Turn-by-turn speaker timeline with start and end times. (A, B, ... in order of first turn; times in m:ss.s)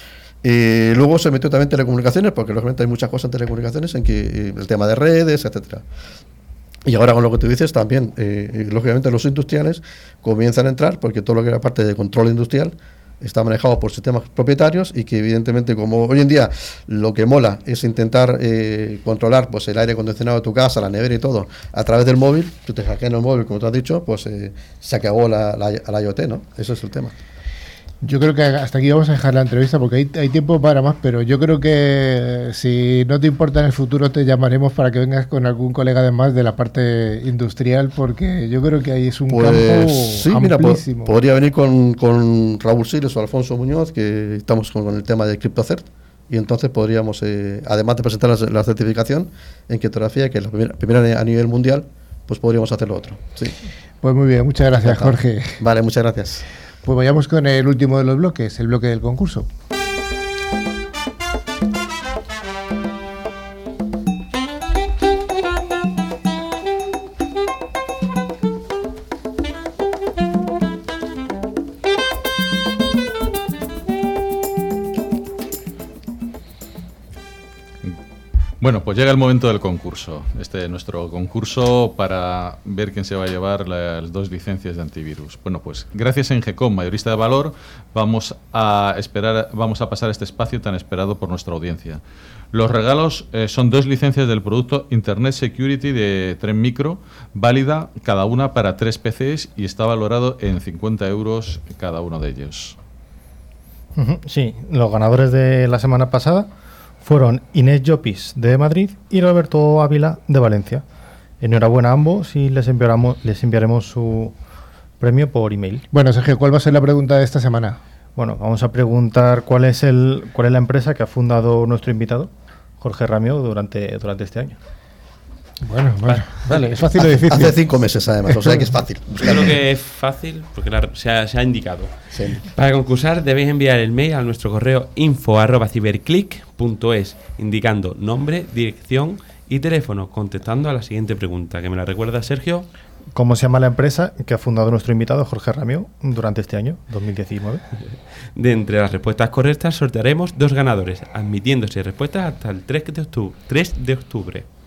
0:00.4-0:05.8 A
0:06.9-0:27.1 A
0:28.0-0:41.2 B
0:39.3-0:53.6 A
0:54.0-0:55.6 B
0:54.8-0:56.4 A
0:56.8-0:59.5 B
1:18.6-1:32.0 C
1:32.5-1:42.8 C
1:44.0-1:46.5 D
1:47.0-1:50.8 D
1:51.4-1:54.4 D
1:55.0-1:55.8 D
1:55.9-1:57.8 B
1:58.2-2:04.6 D
2:05.6-2:07.6 B
2:06.1-2:06.8 E
2:07.3-2:09.4 A
2:08.3-2:08.7 B
2:09.2-2:22.7 E
2:12.1-2:12.4 A
2:23.1-2:27.6 D
2:28.4-2:34.5 E